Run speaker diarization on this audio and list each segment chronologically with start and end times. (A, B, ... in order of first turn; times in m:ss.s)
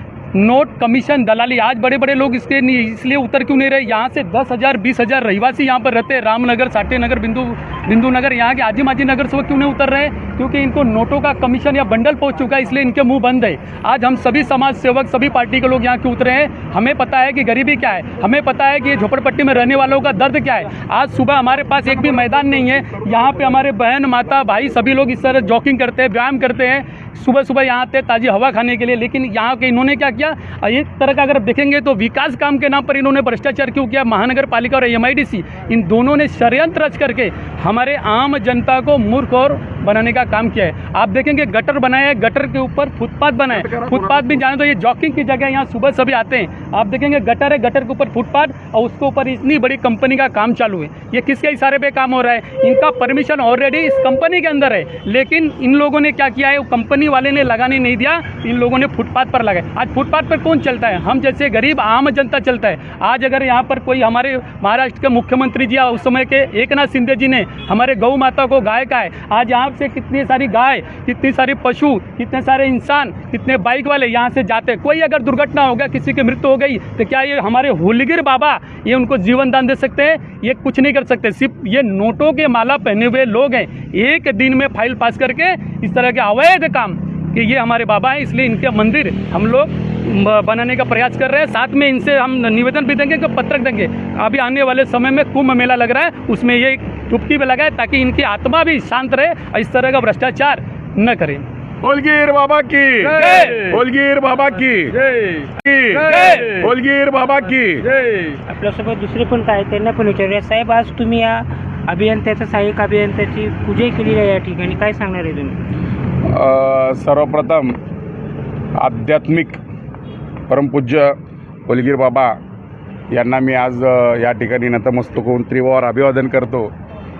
0:00.3-1:41.4 A
0:43.5-0:44.4 B
1:41.8-1:45.0 B
1:43.2-1:43.6 A
1:45.5-1:47.8 B
1:46.1-1:46.4 A
1:48.5-1:55.6 C
1:56.2-1:57.8 B
1:58.8-1:59.6 B
2:00.5-2:01.2 B
2:01.7-2:02.4 B
2:03.1-2:06.7 B